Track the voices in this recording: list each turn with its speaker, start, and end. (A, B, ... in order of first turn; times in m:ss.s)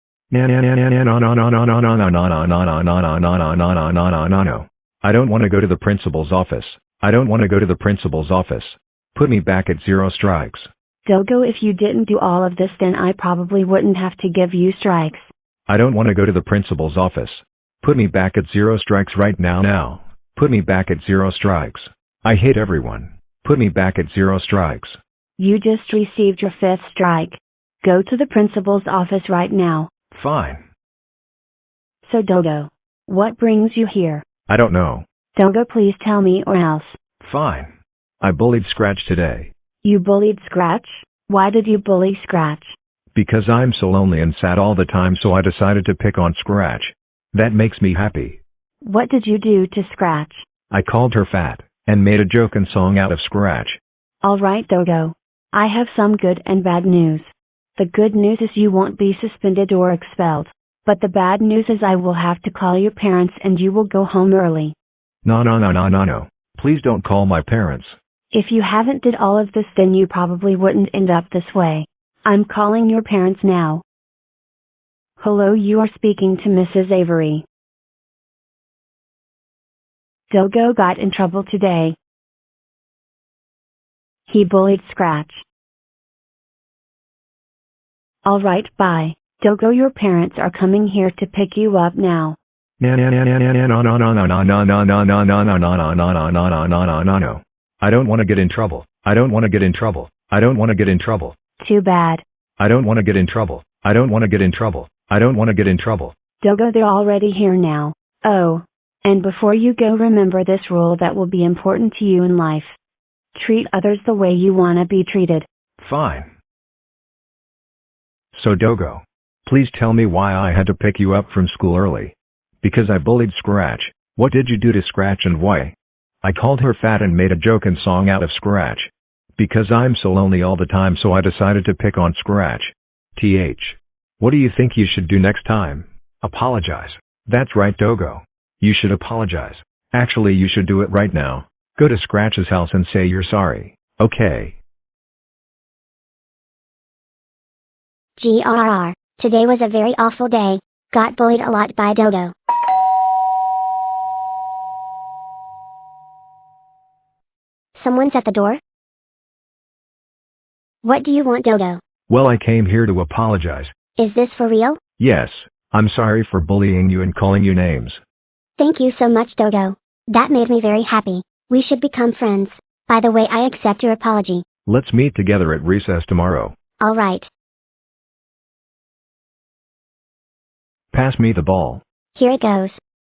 0:00.3-0:10.7 A
0:11.0-0:15.3 B
0:15.7-0:25.0 A
0:25.4-0:29.9 B
0:30.1-0:30.6 A
0:32.0-0:34.2 B
0:34.5-0:35.0 A
0:35.4-0:37.0 B
0:37.2-0:39.5 A
0:39.8-0:42.7 B
0:43.1-0:48.4 A
0:48.8-0:50.4 B
0:50.7-0:53.8 A
0:54.2-1:04.7 B
1:05.2-1:08.0 A
1:08.3-1:13.8 B
1:15.2-1:17.4 B
1:20.3-1:22.0 B
1:24.3-1:25.4 B
1:28.2-1:32.4 B
1:32.8-1:41.3 A
1:41.6-1:42.2 B
1:42.6-1:46.1 A
1:46.4-1:52.8 B
1:53.3-1:55.5 B
1:55.8-1:56.3 A
1:58.3-2:24.6 A
2:28.2-2:32.3 C
2:37.8-2:38.6 C
2:40.8-2:41.8 C
2:42.1-2:43.7 A
2:44.0-2:44.8 C
2:45.0-2:48.0 A
2:48.6-2:54.4 C
2:54.6-2:56.6 A
2:56.8-2:57.3 C
3:00.9-3:01.8 A
3:02.1-3:02.8 C